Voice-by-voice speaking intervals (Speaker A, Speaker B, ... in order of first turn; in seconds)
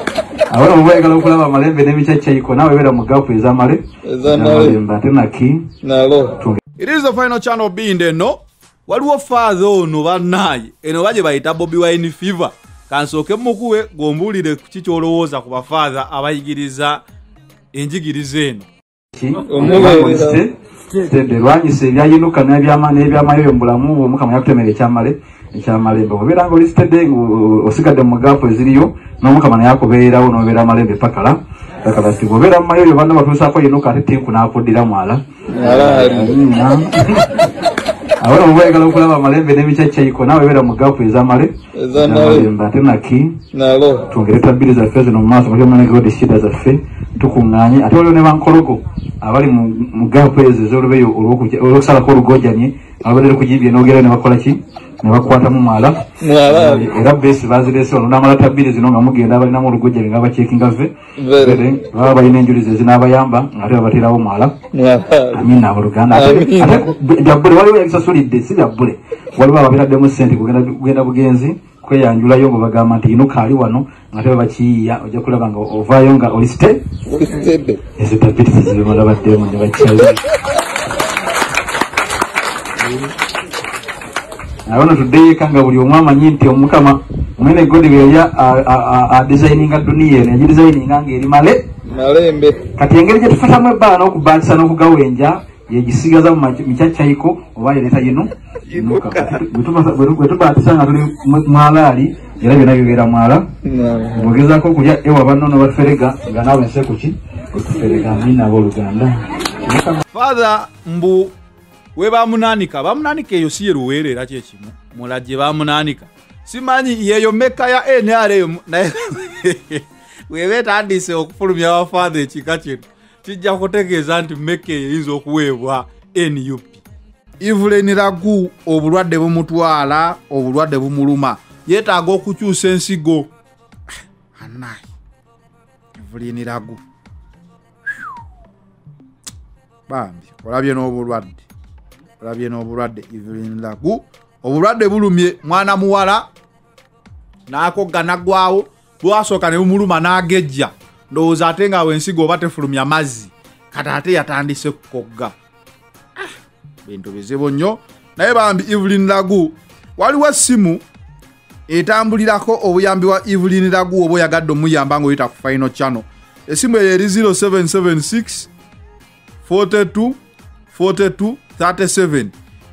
Speaker A: 0.5-5.7, 19.1-37.7, 38.2-43.4, 44.0-64.6, 65.3-76.8, 78.0-80.2, 84.7-91.7, 92.8-103.5, 104.1-110.0
Speaker B: 4.0-4.8, 5.8-6.3, 19.4-20.4, 35.5-36.4, 41.7-42.5, 43.5-44.0, 56.2-56.9, 61.2-61.7, 64.7-65.5, 66.1-66.9, 77.1-77.8, 91.8-92.6, 98.7-99.4, 103.6-104.3
Speaker C: 6.8-17.0, 17.7-18.7, 110.1-111.3, 112.0-126.8, 127.4-133.3, 134.3-134.9, 136.0-136.8, 139.9-141.5, 142.2-146.2, 147.5-155.3, 156.8-160.8, 161.7-168.5, 169.4-170.2, 170.7-172.3